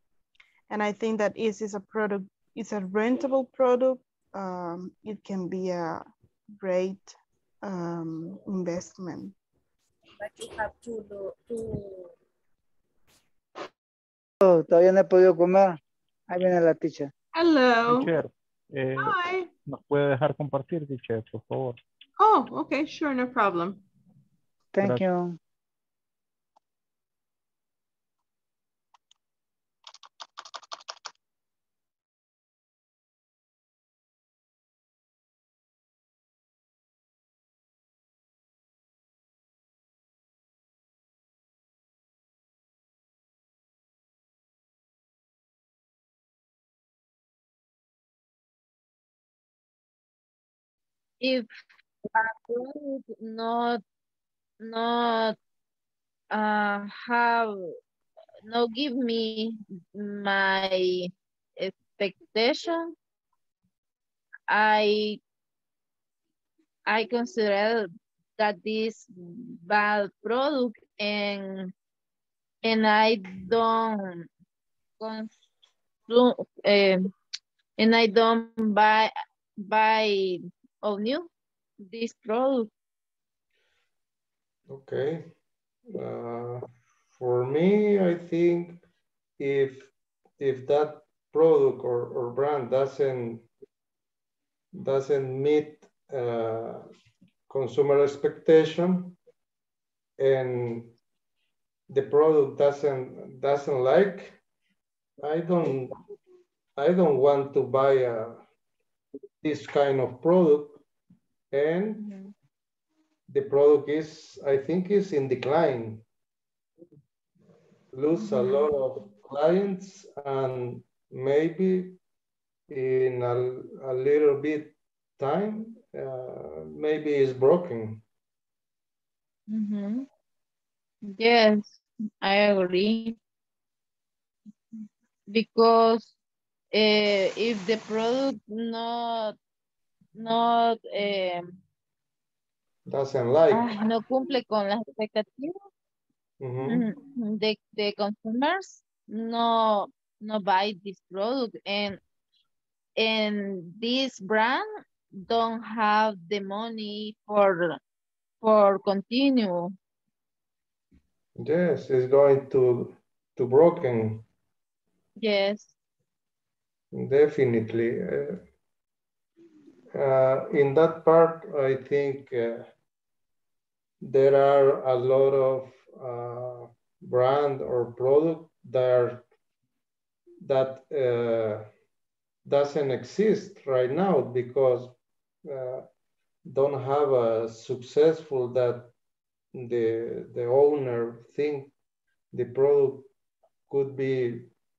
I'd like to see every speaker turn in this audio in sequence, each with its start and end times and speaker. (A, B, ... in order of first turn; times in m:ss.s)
0:00.7-0:06.0 A
0:06.6-0:09.3 A
0:10.2-0:12.2 B
0:14.4-0:15.8 C
0:16.3-0:17.1 C
0:17.4-0:18.1 D
0:17.9-0:21.8 E
0:19.0-0:19.5 D
0:22.2-0:23.8 D
0:24.7-0:25.4 C
0:51.2-0:51.5 F
0:52.1-0:53.8 F
0:54.6-0:55.4 F
0:56.3-0:57.8 F
0:58.5-1:03.0 F
1:04.5-1:05.2 F
1:06.9-1:11.7 F
1:12.6-1:14.3 F
1:15.0-1:15.3 F
1:16.1-1:17.1 F
1:17.8-1:19.1 F
1:19.6-1:21.3 F
1:21.8-1:22.7 F
1:24.7-1:25.3 G
1:25.9-1:28.8 G
1:29.4-1:33.5 G
1:34.7-1:36.9 G
1:37.5-1:39.2 G
1:40.2-1:40.9 G
1:41.9-1:44.4 G
1:45.2-1:46.0 G
1:46.8-1:48.4 G
1:49.4-1:50.8 G
1:51.5-1:52.1 G
1:53.3-1:56.0 G
1:57.9-2:02.0 G
2:02.7-2:08.0 G
2:09.5-2:10.1 F
2:11.0-2:13.2 F
2:15.3-2:16.1 F
2:16.7-2:19.4 F
2:20.2-2:21.6 F
2:22.9-2:23.8 G
2:23.5-2:25.6 F
2:26.4-2:26.9 G
2:26.6-2:32.0 F
2:33.0-2:34.7 F
2:35.2-2:37.8 F
2:38.4-2:39.8 F
2:41.4-2:44.3 G
2:45.2-2:45.7 F
2:46.9-2:48.4 G
2:49.9-2:52.7 G
2:54.0-2:59.2 G
3:00.4-3:01.7 G
3:02.5-3:05.0 G
3:05.5-3:05.9 G
3:06.5-3:08.9 G
3:09.5-3:11.7 G
3:12.3-3:13.1 G
3:13.7-3:14.5 G